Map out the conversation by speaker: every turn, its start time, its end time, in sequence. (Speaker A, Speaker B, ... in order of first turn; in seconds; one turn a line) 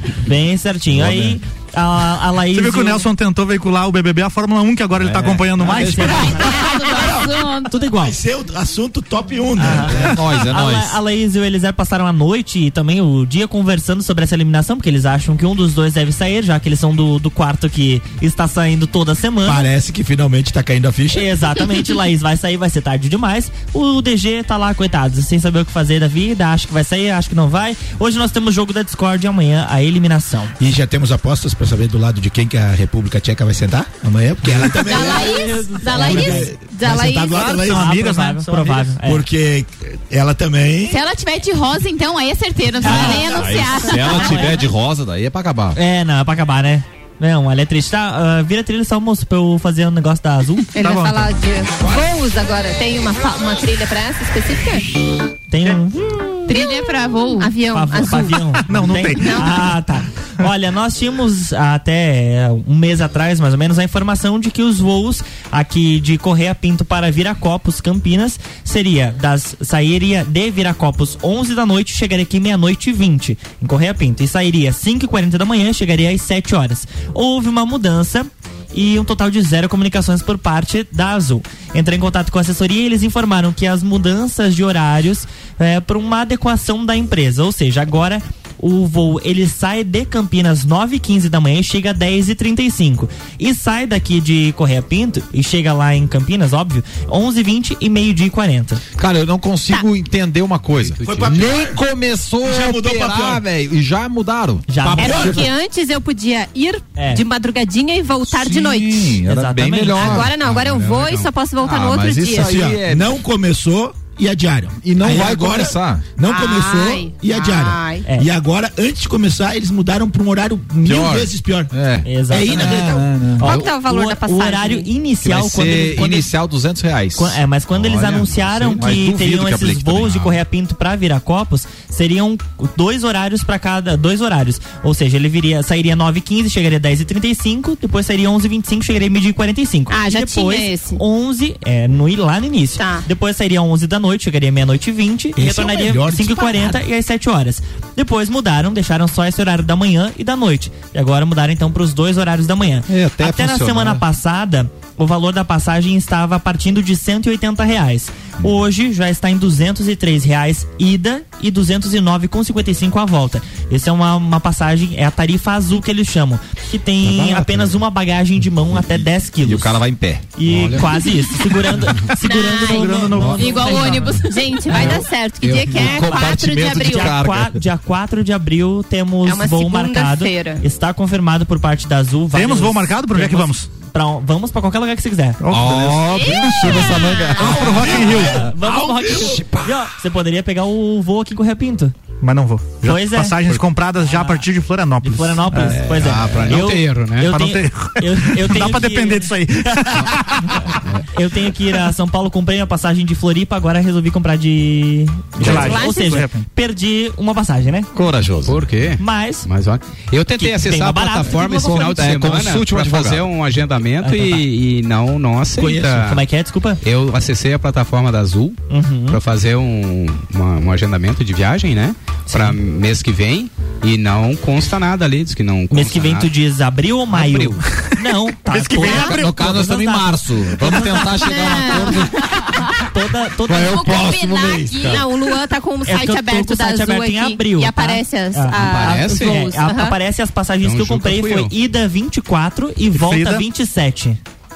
Speaker A: 0.2-3.1
Speaker B: 0.9-1.4
Speaker C: 2.5-6.5
Speaker B: 5.0-6.3
Speaker A: 5.6-6.3
Speaker D: 6.3-7.7
Speaker E: 6.7-10.2
Speaker A: 7.6-8.2
Speaker A: 9.6-19.7
Speaker B: 10.0-11.0
Speaker E: 19.4-21.6
Speaker A: 21.1-30.5
Speaker E: 30.6-37.9
Speaker A: 34.8-36.5
Speaker F: 34.8-37.5
Speaker D: 35.1-35.5
Speaker C: 37.3-39.0
Speaker A: 37.5-39.3
Speaker E: 39.0-41.0
Speaker D: 40.9-44.5
Speaker B: 42.8-45.8
Speaker F: 42.8-44.5
Speaker A: 42.9-43.4
Speaker A: 44.0-44.6
Speaker A: 45.8-50.8
Speaker C: 50.8-51.3
Speaker F: 50.8-54.9
Speaker A: 55.5-56.2
Speaker F: 56.4-58.6
Speaker D: 56.5-57.5
Speaker A: 57.7-98.8
Speaker C: 58.7-59.4
Speaker F: 59.2-59.5
Speaker B: 99.0-105.1
Speaker G: 100.7-101.7
Speaker E: 101.0-101.8
Speaker E: 102.4-103.4
Speaker A: 104.7-105.5
Speaker F: 105.0-109.2
Speaker A: 107.0-107.2
Speaker B: 108.3-110.3
Speaker A: 109.2-110.3
Speaker F: 110.0-112.5
Speaker G: 110.3-111.3
Speaker B: 111.6-113.2
Speaker E: 112.3-121.7
Speaker B: 114.8-116.0
Speaker F: 116.2-118.0
Speaker B: 120.8-123.5
Speaker A: 122.0-126.3
Speaker E: 122.2-123.1
Speaker F: 123.4-124.9
Speaker B: 125.2-127.4
Speaker A: 127.2-169.8
Speaker G: 127.8-129.0
Speaker B: 128.7-130.4
Speaker F: 139.9-141.0
Speaker F: 142.8-143.1
Speaker E: 145.4-146.6
Speaker F: 146.5-146.8
Speaker B: 152.9-154.0
Speaker B: 167.0-167.8
Speaker B: 168.7-170.3
Speaker A: 170.3-173.9
Speaker G: 170.5-171.0
Speaker C: 172.2-174.2
Speaker F: 172.2-173.7
Speaker D: 173.4-174.6
Speaker F: 174.2-177.2
Speaker G: 174.7-176.0
Speaker B: 175.8-177.6
Speaker A: 175.8-185.4
Speaker F: 179.2-180.6
Speaker C: 182.3-183.7
Speaker C: 185.4-186.8
Speaker B: 185.5-188.5
Speaker F: 186.1-188.0
Speaker C: 187.4-188.5
Speaker E: 187.6-189.7
Speaker A: 188.4-191.9
Speaker C: 192.2-195.9
Speaker A: 192.8-194.5
Speaker A: 195.0-200.1
Speaker G: 195.8-197.4
Speaker C: 197.2-200.8
Speaker A: 201.1-207.9
Speaker B: 205.4-205.7
Speaker C: 205.4-206.5
Speaker F: 205.5-206.1
Speaker B: 207.9-208.6
Speaker G: 208.4-216.3
Speaker A: 209.0-209.5
Speaker A: 210.3-212.1
Speaker B: 211.5-213.3
Speaker A: 214.0-214.5
Speaker A: 215.6-216.8
Speaker G: 216.8-226.3
Speaker A: 218.7-219.2
Speaker A: 222.3-222.6
Speaker A: 225.7-232.0
Speaker G: 227.1-227.6
Speaker C: 228.5-229.4
Speaker B: 228.8-232.3
Speaker F: 231.2-232.6
Speaker A: 232.6-235.1
Speaker B: 233.5-235.0
Speaker F: 233.6-240.0
Speaker D: 234.0-234.6
Speaker A: 235.8-244.2
Speaker G: 238.6-239.5
Speaker G: 240.6-241.5
Speaker C: 242.9-243.5